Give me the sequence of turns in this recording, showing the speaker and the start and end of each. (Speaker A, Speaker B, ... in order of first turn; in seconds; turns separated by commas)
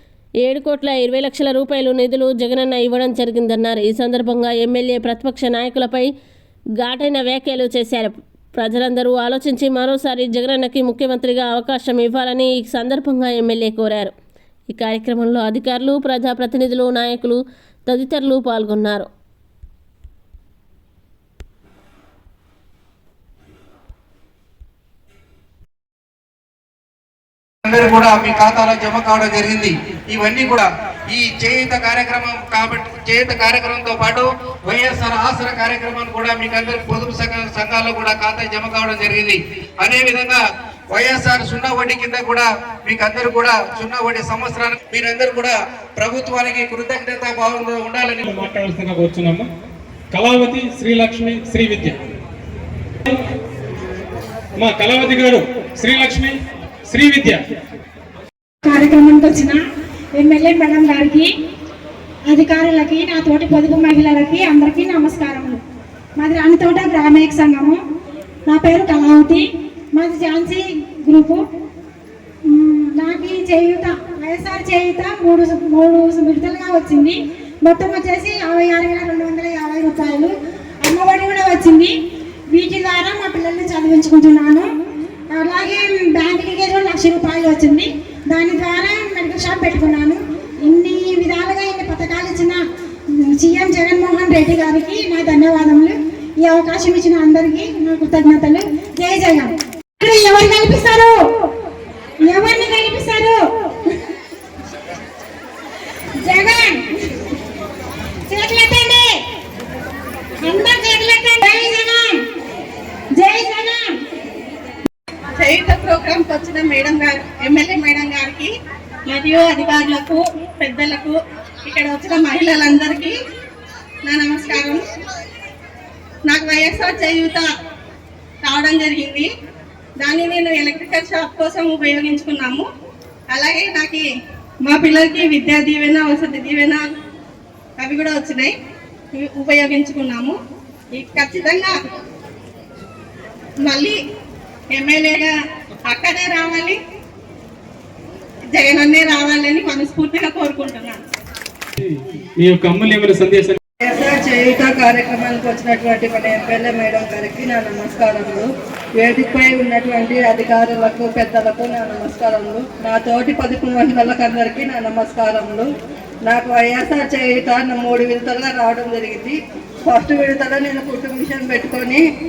Speaker A: 0.4-6.1, Speaker A: 6.8-14.1, Speaker A: 14.7-19.1, Speaker B: 27.6-48.2, Speaker C: 48.3-49.4, Speaker C: 50.2-51.9, Speaker C: 54.6-56.3, Speaker C: 56.9-57.4, Speaker D: 58.6-59.6, Speaker D: 60.2-61.3, Speaker D: 62.3-65.6, Speaker D: 66.2-67.8, Speaker D: 68.5-69.5, Speaker D: 70.0-71.4, Speaker D: 72.5-81.9, Speaker D: 82.5-84.7, Speaker D: 85.3-92.6, Speaker D: 93.4-101.2, Speaker D: 102.2-103.4, Speaker D: 106.2-106.8, Speaker D: 108.3-109.2, Speaker D: 110.4-112.1, Speaker D: 113.2-113.9, Speaker E: 115.4-118.5, Speaker E: 119.1-123.1, Speaker E: 124.1-124.8, Speaker E: 126.3-127.5, Speaker E: 128.4-129.3, Speaker E: 130.0-132.7, Speaker E: 133.3-134.1, Speaker E: 134.7-136.9, Speaker E: 137.8-138.5, Speaker E: 139.1-140.3, Speaker E: 140.9-141.7, Speaker E: 143.7-143.9, Speaker E: 144.7-145.3, Speaker E: 145.9-146.8, Speaker E: 148.5-151.0, Speaker C: 152.4-153.6, Speaker F: 153.9-165.7, Speaker F: 166.3-169.4, Speaker F: 169.9-172.1